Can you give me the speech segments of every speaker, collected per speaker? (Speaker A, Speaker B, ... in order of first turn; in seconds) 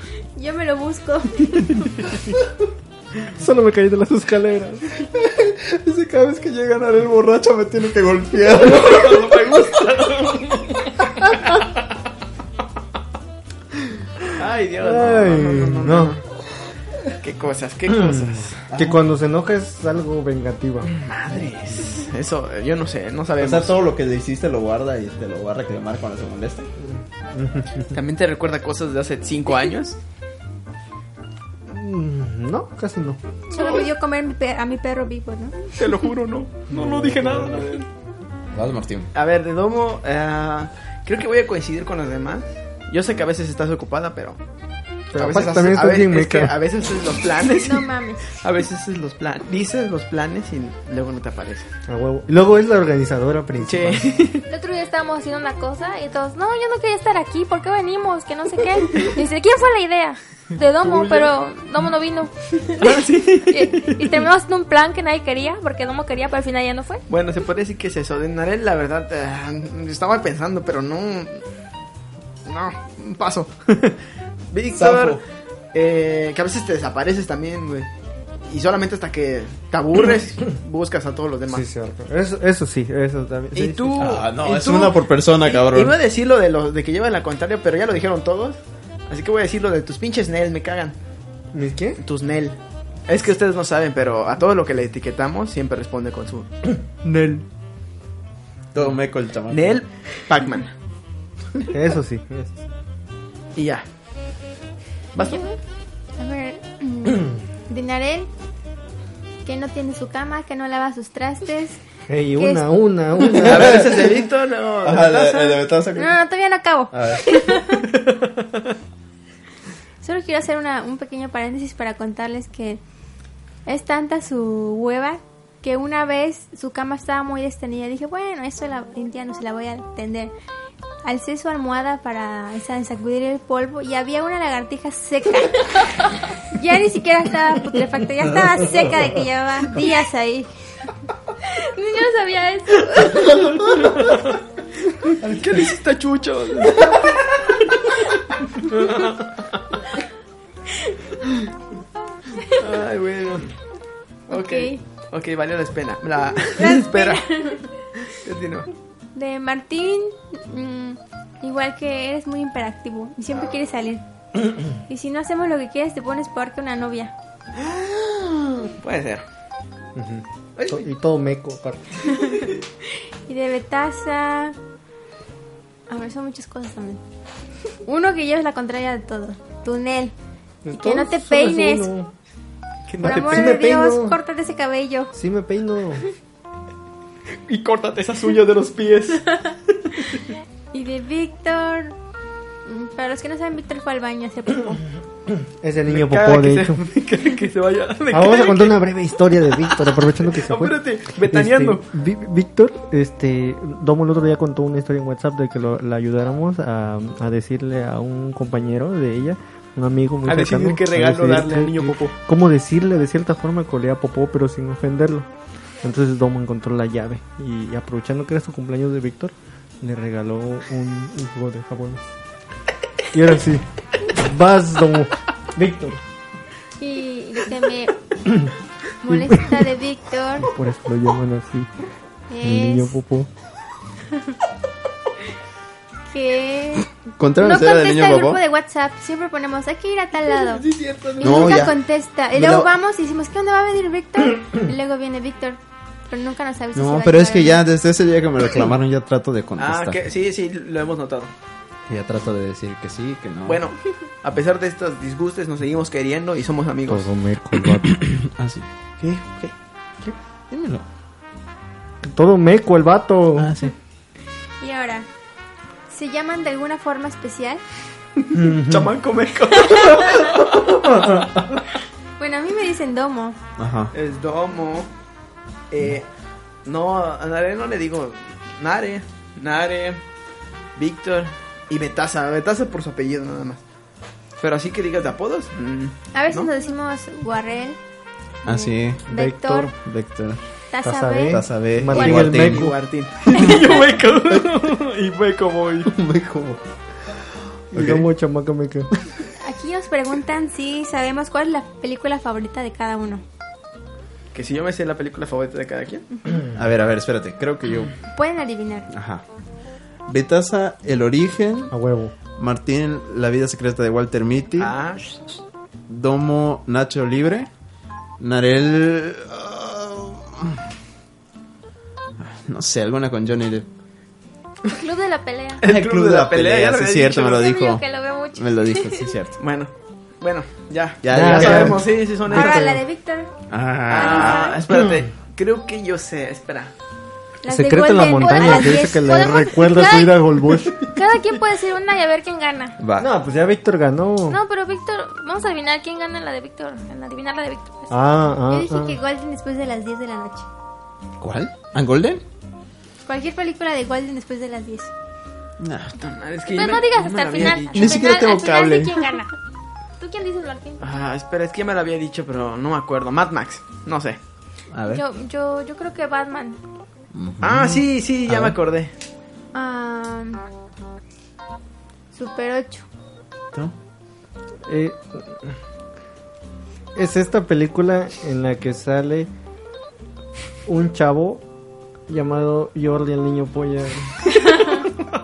Speaker A: 0.4-1.9, 33.5-35.8, 47.5-48.4, 105.2-105.6, 106.2-108.3, 109.4-111.8, 112.4-112.7, 116.0-117.8, 120.0-122.8, 123.7-130.3, 131.0-140.5, 154.3-154.8, 156.6-157.6, 159.1-164.0, 164.7-167.1, 172.1-174.6, 175.9-177.0, 177.8-180.1, 180.8-181.9, 183.0-185.1, 190.7-192.0, 192.7-194.8, 226.8-227.9, 229.0-230.5, 232.3-233.0, 236.1-240.7, 241.2-247.6, 264.6-265.1, 265.9-267.6, 272.2-273.4, 286.1-287.8, 288.4-289.7, 290.7-291.4, 293.3-293.6, 299.4-303.2, 308.1-308.9, 332.3-333.3, 337.4-339.5, 348.5-350.5, 353.1-354.9, 369.5-370.4, 372.1-372.9
Speaker B: 3.3-5.0, 14.8-16.1, 17.9-21.0, 26.8-27.9, 31.7-33.2, 36.7-37.7, 45.1-46.6, 51.9-54.1, 81.5-84.1, 91.5-92.0, 97.0-97.5, 101.7-102.6, 112.1-114.0, 169.9-172.1, 180.6-182.1, 183.0-184.2, 185.1-186.1, 195.4-196.8, 198.1-215.3, 215.8-222.1, 223.1-226.0, 229.1-229.6, 230.4-231.7, 232.4-233.3, 256.9-258.0, 262.0-263.5, 268.3-268.9, 289.1-289.7, 290.8-292.7, 297.7-298.9, 311.7-312.1, 331.1-332.8, 337.5-340.9, 343.0-344.4, 347.9-349.0, 374.7-375.5, 376.9-379.3, 380.6-381.4, 382.1-384.3
Speaker C: 5.1-9.7, 18.7-19.0, 23.4-26.7, 38.5-39.1, 74.7-75.2, 84.0-86.0, 98.7-99.8, 113.4-114.1, 114.8-116.1, 116.9-117.4, 237.2-238.4, 241.1-241.8, 242.3-242.7, 246.8-250.0, 251.9-253.6, 257.7-259.5, 260.1-260.9, 263.4-263.7, 273.6-273.9, 288.4-289.1, 289.7-290.4, 291.3-292.6, 295.9-296.6, 297.7-298.1, 306.5-307.9, 308.9-309.2, 310.1-311.7, 312.4-314.7, 315.9-317.5, 318.2-320.6, 322.2-323.7, 325.6-329.4, 331.0-331.9, 333.5-334.6, 342.8-343.1, 351.2-352.2, 355.6-356.0, 357.7-358.9, 364.7-365.0, 367.1-368.6
Speaker D: 8.5-11.7, 14.3-16.2, 17.2-18.7, 20.9-23.8, 27.9-30.0, 35.8-37.9, 39.1-44.4, 45.1-51.7, 53.6-54.5, 60.8-61.3, 62.7-64.2, 67.1-71.4, 72.5-74.0, 74.5-75.2, 75.7-77.9, 78.5-81.6, 83.5-88.6, 89.1-91.0, 92.0-96.5, 99.5-100.7, 103.6-103.8, 105.1-105.4, 113.3-115.7, 143.7-144.4, 145.1-147.8, 148.6-149.6, 152.6-153.5, 154.3-157.5, 158.1-158.7, 167.6-169.2, 182.9-183.6, 187.5-190.3, 195.9-201.8, 210.3-212.1, 240.4-241.6, 249.6-251.3, 253.5-257.1, 268.2-271.1, 273.9-274.9, 275.7-276.1, 276.6-280.0, 280.8-283.6, 284.4-286.5, 291.9-295.9, 304.3-306.1, 314.6-315.1, 325.6-327.4, 329.4-332.7, 333.9-336.7, 356.0-358.2, 360.8-364.2, 367.4-368.9
Speaker E: 54.5-67.0, 141.4-143.8, 324.7-325.6, 327.2-329.1, 334.1-334.5, 338.2-342.8, 344.3-347.9, 356.5-359.4, 360.0-360.8, 364.9-366.6